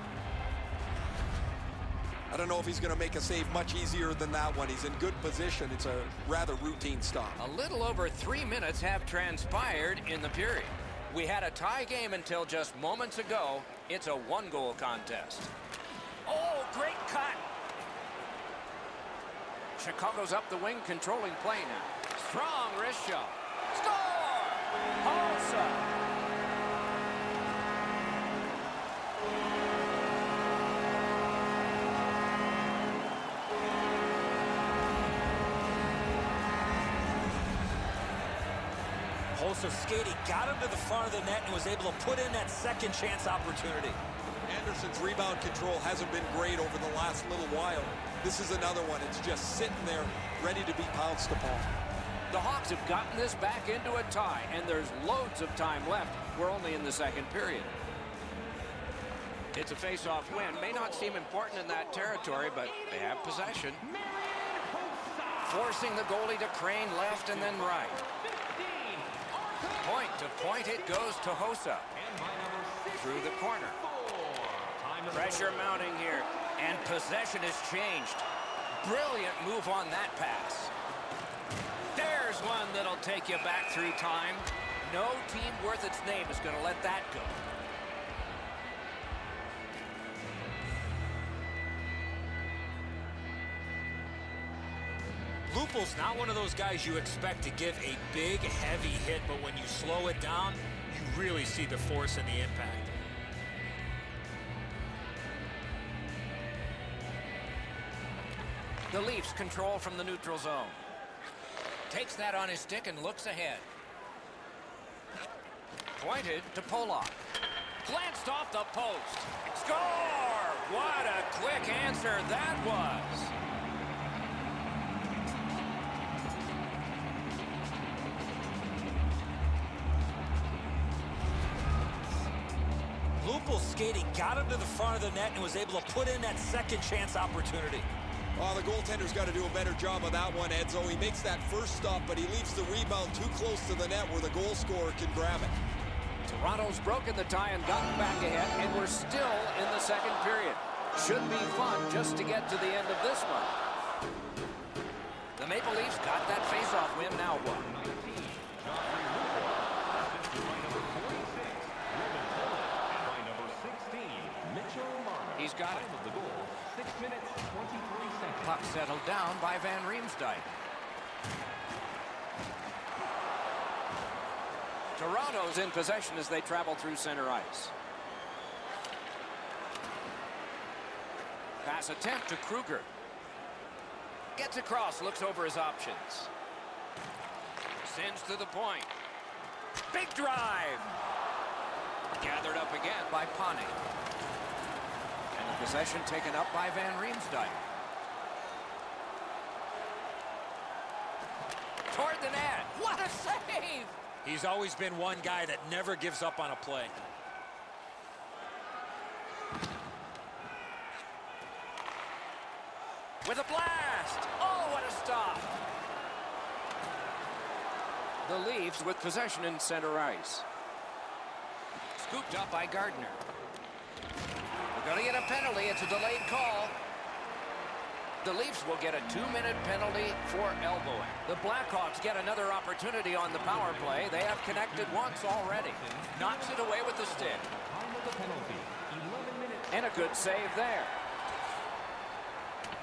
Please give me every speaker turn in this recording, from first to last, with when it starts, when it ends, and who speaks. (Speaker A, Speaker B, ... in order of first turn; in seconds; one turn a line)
Speaker A: 2.3-7.4
Speaker B: 7.4-15.5
Speaker B: 16.3-17.4
Speaker B: 19.8-25.9
Speaker C: 39.3-44.0
Speaker A: 44.5-51.7
Speaker B: 52.3-57.7
Speaker B: 59.5-63.9
Speaker D: 60.2-65.8
Speaker B: 65.5-68.0
Speaker D: 66.9-77.0
Speaker B: 69.8-71.9
Speaker B: 72.9-73.8
Speaker B: 75.1-78.3
Speaker B: 78.8-80.7
Speaker B: 81.9-87.4
Speaker C: 95.5-102.9
Speaker B: 108.9-110.8
Speaker B: 111.9-113.7
Speaker B: 116.0-117.2
Speaker B: 117.8-123.3
Speaker C: 133.2-137.9
Speaker A: 138.4-145.6
Speaker B: 146.3-153.6
Speaker B: 155.4-157.7
Speaker D: 157.6-168.7
Speaker B: 165.4-165.9
Speaker B: 168.4-170.5
Speaker B: 174.9-177.7
Speaker B: 181.6-182.9
Speaker B: 184.3-186.3
Speaker B: 187.8-188.9
Speaker B: 189.9-190.9
Speaker B: 192.2-193.8
Speaker B: 195.4-197.7
Speaker B: 201.9-203.9
Speaker C: 204.2-206.9
Speaker B: 213.2-215.5
Speaker B: 218.2-220.4
Speaker B: 222.0-223.2
Speaker B: 224.7-226.8
Speaker B: 228.2-237.5
Speaker D: 233.2-240.1
Speaker B: 239.7-241.0